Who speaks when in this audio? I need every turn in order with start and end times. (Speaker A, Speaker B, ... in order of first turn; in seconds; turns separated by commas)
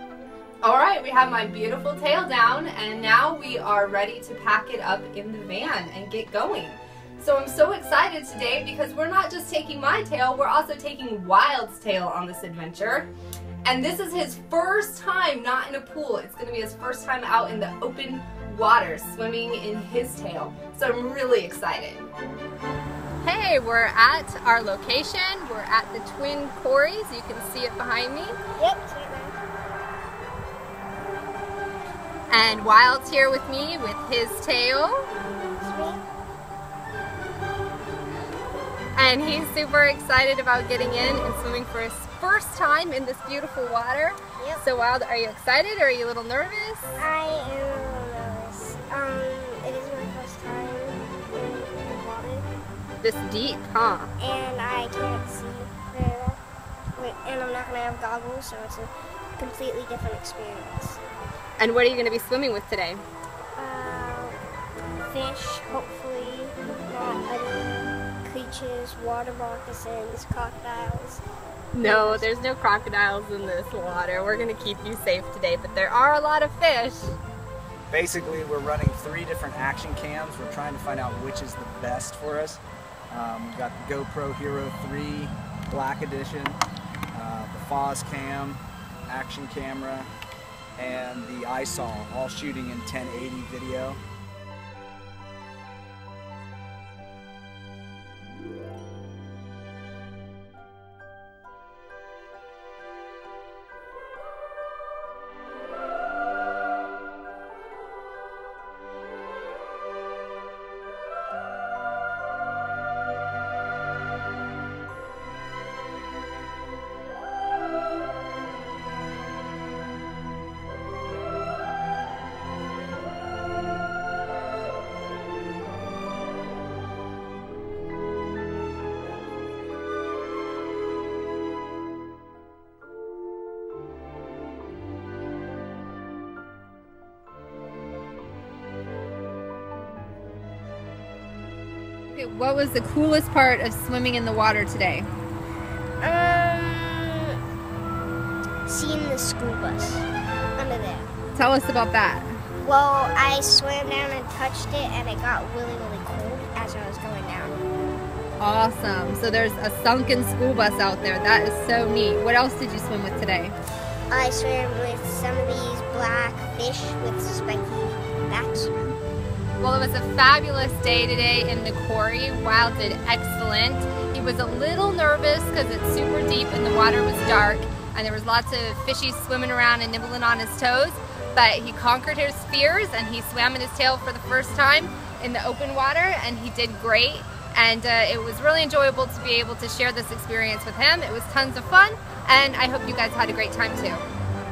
Speaker A: 0.6-13.1, Speaker A: 13.6-22.1, Speaker A: 23.2-28.4, Speaker B: 28.6-29.4, Speaker A: 32.3-35.1, Speaker B: 35.6-36.0, Speaker A: 39.0-47.0, Speaker B: 47.0-52.5, Speaker A: 53.0-54.1, Speaker B: 54.2-56.4, Speaker B: 57.0-61.0, Speaker A: 61.6-63.0, Speaker B: 63.6-64.4, Speaker B: 65.0-71.2, Speaker A: 71.7-77.2, Speaker B: 71.8-72.2, Speaker C: 77.9-82.6, Speaker C: 83.1-86.6, Speaker C: 87.1-90.1, Speaker C: 90.8-94.0, Speaker A: 142.1-145.1, Speaker B: 146.0-147.4, Speaker B: 148.7-151.1, Speaker A: 151.3-152.3, Speaker B: 152.6-157.6, Speaker A: 158.4-163.6, Speaker B: 164.1-168.9, Speaker A: 169.6-194.0